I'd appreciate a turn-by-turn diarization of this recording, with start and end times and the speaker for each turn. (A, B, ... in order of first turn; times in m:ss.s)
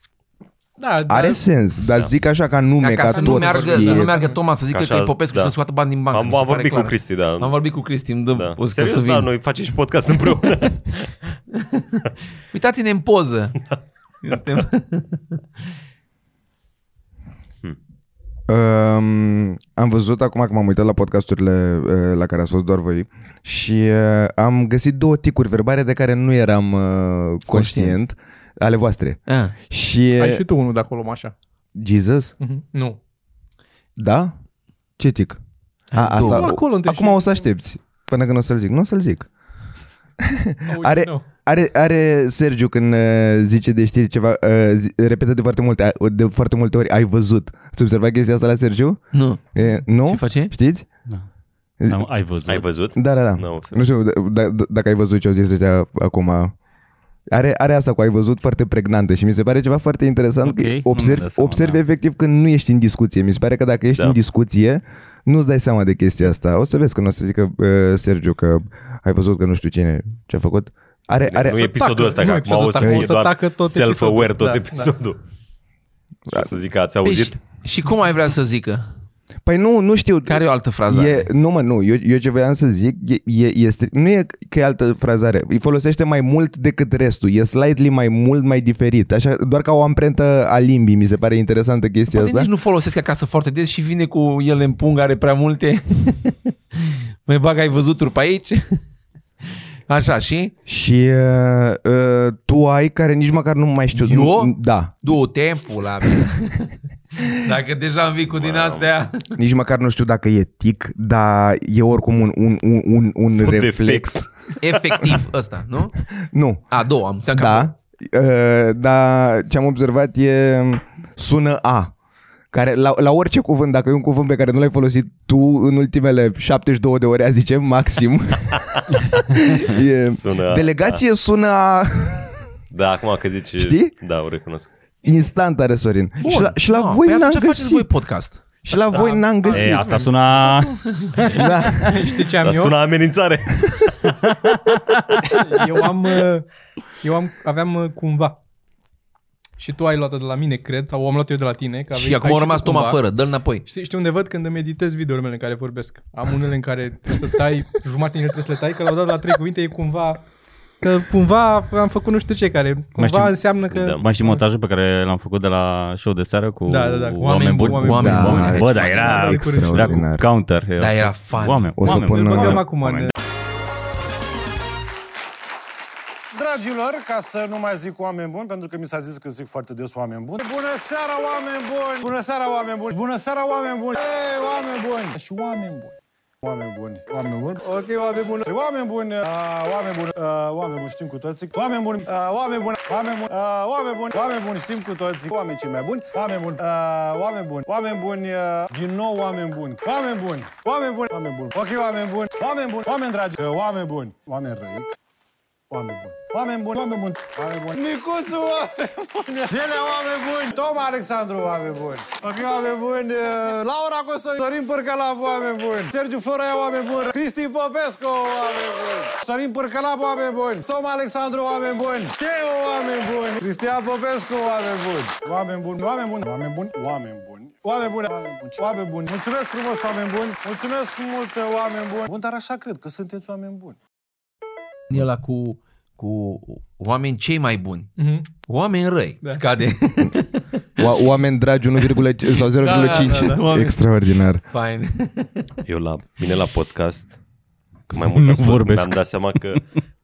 0:00.8-0:01.4 A
0:01.1-0:04.2 B
0:01.8-0:02.1 C
0:02.8-0:09.3 D
0:03.1-0:04.4 A
0:04.7-0:05.6 C
0:06.1-0:07.6 C
0:08.3-0:11.2 C
0:12.5-0:13.7 D
0:14.2-0:15.4 D
0:18.5-0:30.4 B
0:27.5-0:28.0 D
0:29.3-0:29.6 D
0:30.2-0:31.3 A
0:31.8-0:32.3 B
0:32.4-0:33.0 A
0:34.0-0:34.3 B
0:35.0-0:35.4 B
0:35.9-0:36.6 D
0:35.9-0:39.3 B
0:36.1-0:37.4 A
0:40.2-0:50.9 B
0:40.7-0:41.2 A
0:49.1-0:50.5 D
0:51.9-0:52.7 E
0:52.5-0:53.8 C
0:53.0-0:56.5 B
0:57.3-1:11.9 B
1:00.4-1:01.8 E
1:11.3-1:15.2 C
1:11.6-1:14.9 A
1:12.8-1:13.1 B
1:16.3-1:16.6 B
1:16.3-1:17.4 C
1:17.0-1:18.9 D
1:19.4-1:32.5 B
1:20.3-1:21.3 D
1:32.1-1:38.8 D
1:39.4-1:40.5 D
1:40.7-1:45.0 B
1:43.9-1:49.4 D
1:48.3-1:48.9 C
1:49.4-1:54.3 B
1:53.3-1:54.6 C
1:54.6-1:56.0 D
1:56.1-2:01.9 B
1:56.7-1:57.7 D
2:02.5-2:12.5 B
2:10.0-2:11.0 C
2:12.7-2:14.7 C
2:13.6-2:13.9 B
2:15.0-2:17.9 B
2:16.2-2:18.4 D
2:18.6-2:20.1 B
2:18.9-2:20.1 A
2:19.5-2:22.0 E
2:20.6-2:21.2 D
2:21.4-2:22.0 B
2:21.5-2:22.8 A
2:22.4-2:23.9 C
2:25.2-2:26.5 A
2:27.0-2:28.4 A
2:29.6-2:33.0 A
2:31.9-2:33.7 D
2:33.7-2:40.3 A
2:40.8-2:44.4 A
2:43.0-2:43.4 E
2:43.7-2:44.0 C
2:43.9-2:53.1 E
2:46.7-2:50.0 A
2:47.8-2:49.2 D
2:48.0-2:50.2 B
2:50.8-2:51.8 D
2:51.8-2:52.6 B
2:51.8-2:53.1 A
2:56.3-3:24.9 F
3:25.7-3:53.8 F
3:54.9-4:00.9 D
3:58.0-3:58.3 A
4:00.8-4:04.4 B
4:02.3-4:03.8 D
4:02.7-4:03.4 A
4:04.5-4:05.5 D
4:05.7-4:07.2 C
4:07.9-4:09.6 C
4:08.0-4:09.0 E